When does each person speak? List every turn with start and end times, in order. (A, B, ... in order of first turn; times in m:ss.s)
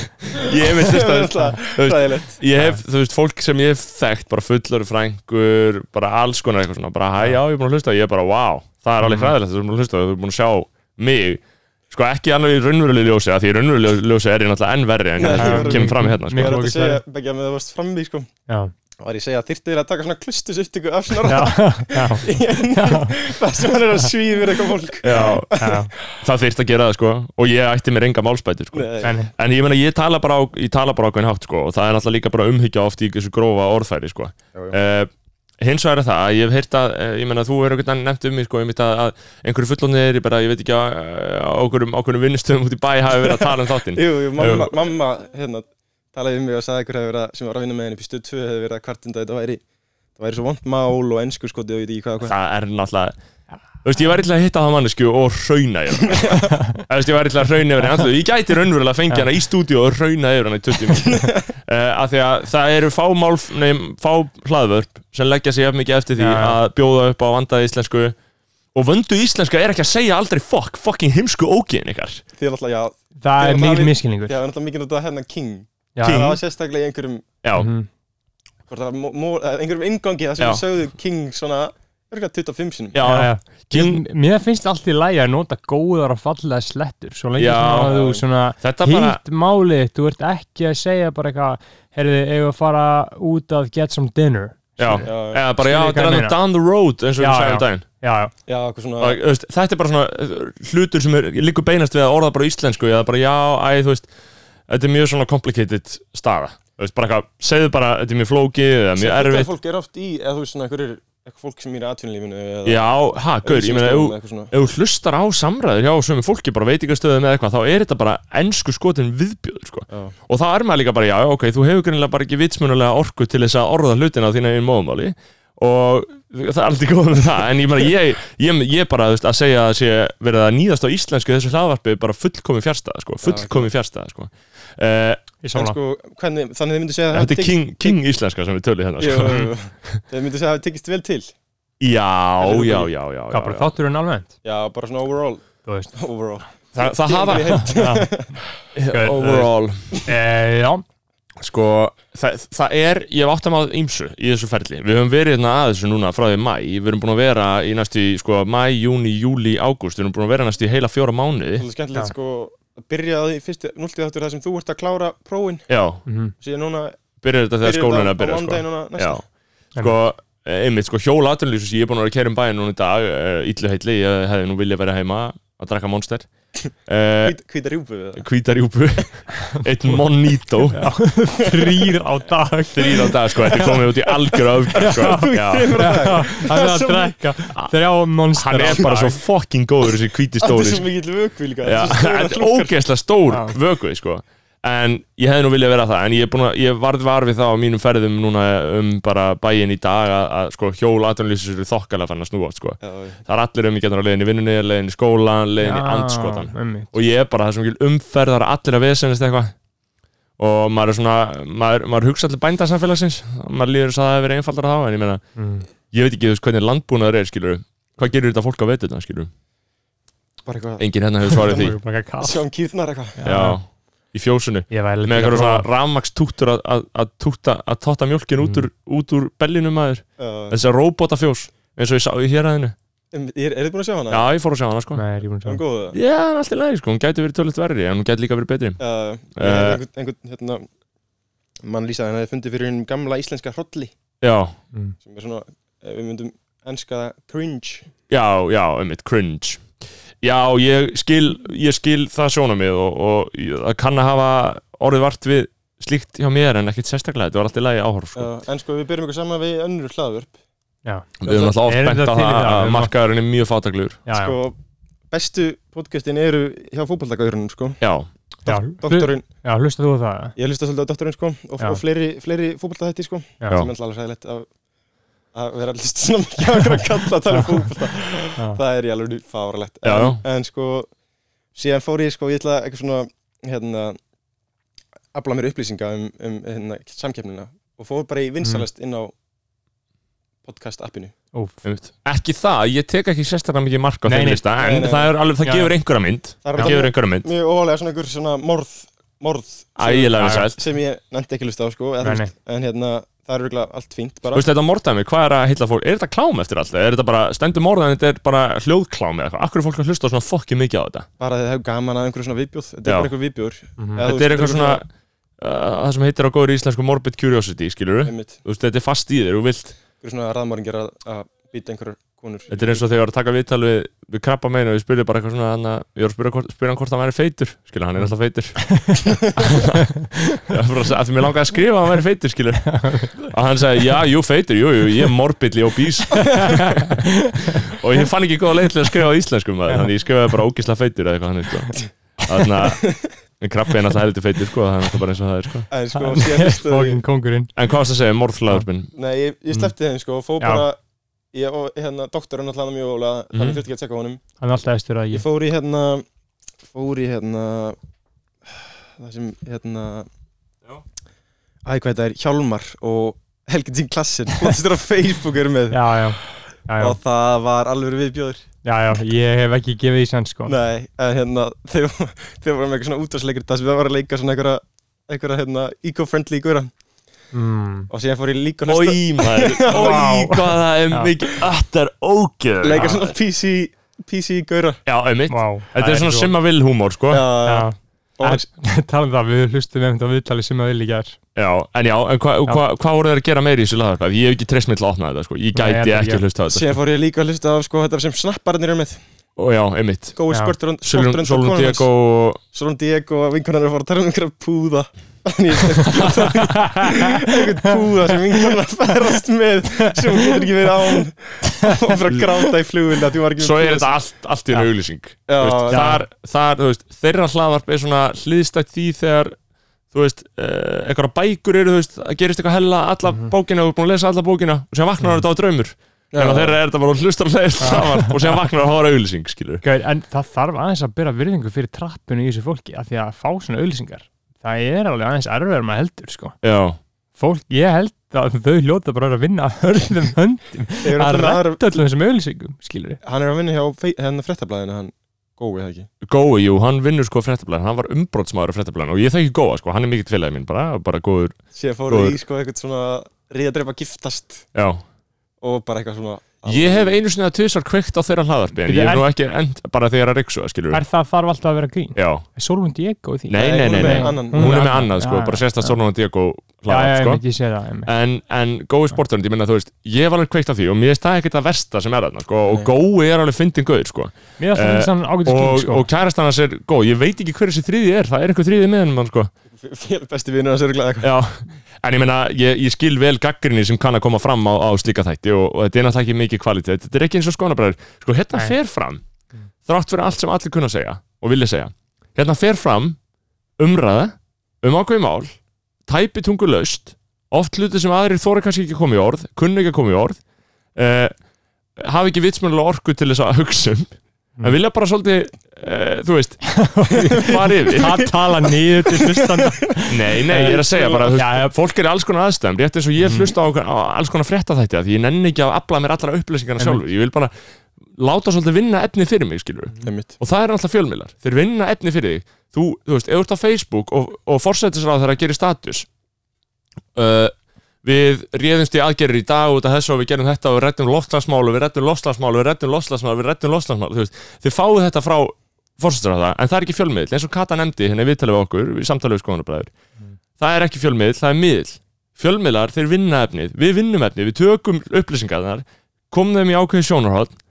0:00.3-0:16.6 A
0:00.7-0:02.4 B
0:02.5-0:02.8 C
0:09.0-0:09.3 C
0:15.2-0:18.3 B
0:15.3-0:17.0 C
0:19.0-0:25.8 B
0:21.2-0:23.2 C
0:25.0-0:44.8 A
0:25.1-0:25.9 C
0:28.7-0:29.1 B
0:29.0-0:29.3 C
0:43.3-0:49.6 B
0:50.2-0:52.3 B
0:52.2-0:53.1 A
0:53.8-1:08.2 A
0:56.1-0:56.6 B
1:06.2-1:06.6 C
1:08.7-1:12.2 A
1:12.4-1:17.3 B
1:13.2-1:14.4 C
1:15.9-1:16.4 C
1:16.0-1:16.4 A
1:17.4-1:17.7 A
1:17.6-1:17.9 C
1:18.7-1:23.0 B
1:20.4-1:20.6 A
1:22.9-1:24.0 A
1:23.0-1:36.4 C
1:27.4-1:28.0 A
1:27.8-1:28.2 B
1:28.6-1:29.2 A
1:34.8-1:37.8 A
1:35.0-1:35.4 B
1:37.2-1:38.3 C
1:38.5-1:39.2 B
1:39.0-1:44.1 A
1:44.7-1:49.5 A
1:49.0-1:52.9 B
1:52.6-2:15.2 A
1:53.4-1:54.5 B
2:13.2-2:13.7 B
2:15.4-2:15.8 C
2:15.5-2:18.0 B
2:17.1-2:20.0 A
2:19.0-2:21.3 B
2:21.8-2:23.7 A
2:22.4-2:22.9 B
2:23.3-2:24.3 C
2:24.4-2:28.4 B
2:25.6-2:25.9 C
2:26.7-2:27.7 A
2:27.6-2:28.1 C
2:28.7-2:29.8 A
2:28.9-2:30.8 C
2:31.4-2:41.6 A
2:41.6-2:45.7 B
2:45.7-2:46.0 A
2:46.0-2:46.3 C
2:46.4-2:47.0 B
2:47.2-2:49.2 A
2:47.6-2:49.2 B
2:49.8-2:56.3 A
2:56.8-2:57.4 A
2:57.2-2:58.2 B
2:58.1-3:00.9 A
3:00.7-3:03.7 C
3:01.4-3:01.9 B
3:02.7-3:05.9 A
3:04.7-3:07.2 B
3:04.7-3:09.2 C
3:08.3-3:10.8 A
3:10.4-3:12.7 B
3:11.6-3:29.5 A
3:13.3-3:13.6 C
3:22.8-3:23.2 B
3:25.6-3:26.9 C
3:30.4-3:35.2 A
3:35.4-3:35.7 C
3:35.8-3:39.3 A
3:40.4-3:41.6 B
3:40.8-3:41.8 A
3:41.3-3:42.4 C
3:42.2-3:43.2 B
3:43.2-3:43.6 C
3:43.2-3:52.7 A
3:44.7-3:45.7 C
3:48.4-3:48.6 C
3:50.2-3:50.6 B
3:53.1-3:54.2 B
3:54.1-3:55.0 A
3:54.9-3:55.6 C
3:55.4-3:56.0 B
3:55.9-3:58.8 A
3:58.8-4:00.7 B
3:59.3-3:59.8 A
4:01.6-4:03.9 B
4:04.2-4:04.6 A
4:05.0-4:07.9 B
4:08.1-4:09.6 A
4:10.2-4:18.3 A
4:18.1-4:20.3 B
4:21.2-4:24.0 A
4:21.2-4:21.5 B
4:21.6-4:22.9 C
4:24.1-4:24.4 C
4:24.1-4:24.6 B
4:25.1-4:27.8 B
4:27.8-4:28.1 A
4:28.4-4:30.3 C
4:28.4-4:29.2 B
4:30.4-4:34.4 B
4:35.3-4:40.9 B
4:39.8-4:40.2 A
4:41.5-4:44.0 B
4:45.1-4:49.1 B
4:50.4-4:51.1 B
4:51.6-4:57.3 A
4:54.0-4:54.4 C
4:54.6-4:55.1 B
4:55.4-4:55.7 C
4:56.4-5:04.4 B
4:59.8-5:00.6 A
5:00.2-5:00.5 C
5:02.0-5:02.3 C
5:04.3-5:11.1 A
5:11.2-5:14.8 B
5:12.8-5:13.1 A
5:13.8-5:14.0 C
5:14.0-5:19.8 A
5:18.0-5:18.4 B
5:20.0-5:22.8 B
5:22.5-5:29.8 A
5:28.6-5:29.0 C
5:30.4-5:42.9 A
5:32.7-5:33.2 C
5:36.2-5:37.6 C
5:43.4-5:45.7 A
5:45.7-5:47.0 B
5:45.9-5:47.5 C
5:47.6-5:48.9 A
5:48.9-5:50.8 B
5:50.4-5:50.6 C
5:51.3-5:54.2 B
5:53.3-5:53.6 A
5:54.4-5:55.2 C
5:55.1-5:56.0 B
5:56.7-5:57.8 B
5:58.5-6:00.1 B
6:01.6-6:06.2 B
6:05.7-6:07.0 C
6:06.8-6:08.4 B
6:08.6-6:10.5 C
6:10.4-6:16.7 B
6:17.3-6:17.9 C
6:17.9-6:20.0 B
6:18.6-6:23.1 A
6:19.7-6:21.1 C
6:22.6-6:24.8 B
6:24.8-6:27.2 A
6:25.3-6:26.3 C
6:27.1-6:28.4 B
6:27.4-6:31.2 C
6:31.3-6:36.8 A
6:35.5-6:36.2 C
6:36.5-6:39.0 B
6:39.4-6:40.2 A
6:40.2-6:41.9 B
6:40.3-6:40.5 C
6:40.8-6:42.4 A
6:42.5-6:53.9 B
6:46.3-6:47.1 C
6:53.4-6:59.4 A
6:55.3-6:55.9 B
6:55.7-6:56.0 C
6:59.9-7:09.6 A
7:06.1-7:06.6 B
7:07.6-7:08.1 C
7:09.6-7:16.4 C
7:16.4-7:16.8 A
7:17.2-7:23.0 C
7:20.8-7:21.6 B
7:23.0-7:25.9 B
7:26.0-7:32.2 A
7:31.5-7:34.4 B
7:34.5-7:34.8 A
7:35.4-7:37.0 B
7:36.4-7:40.8 A
7:38.6-7:39.0 C
7:40.7-7:45.8 C
7:42.0-7:42.2 A
7:43.3-7:47.2 A
7:43.3-7:44.8 B
7:46.7-7:47.9 C
7:47.8-7:59.3 A
7:54.4-7:55.9 C
7:59.6-8:01.1 B
8:01.0-8:09.0 A
8:09.6-8:13.0 A
8:13.6-8:20.2 A
8:20.7-8:21.1 A
8:21.8-8:28.1 A
8:26.5-8:31.5 C
8:27.8-8:28.1 B
8:28.9-8:29.5 B
8:29.9-8:37.3 A
8:30.3-8:31.2 B
8:33.0-8:33.3 C
8:36.6-8:36.8 C
8:37.9-8:45.9 A
8:39.8-8:40.1 B
8:46.9-8:59.7 A
9:00.4-9:07.3 A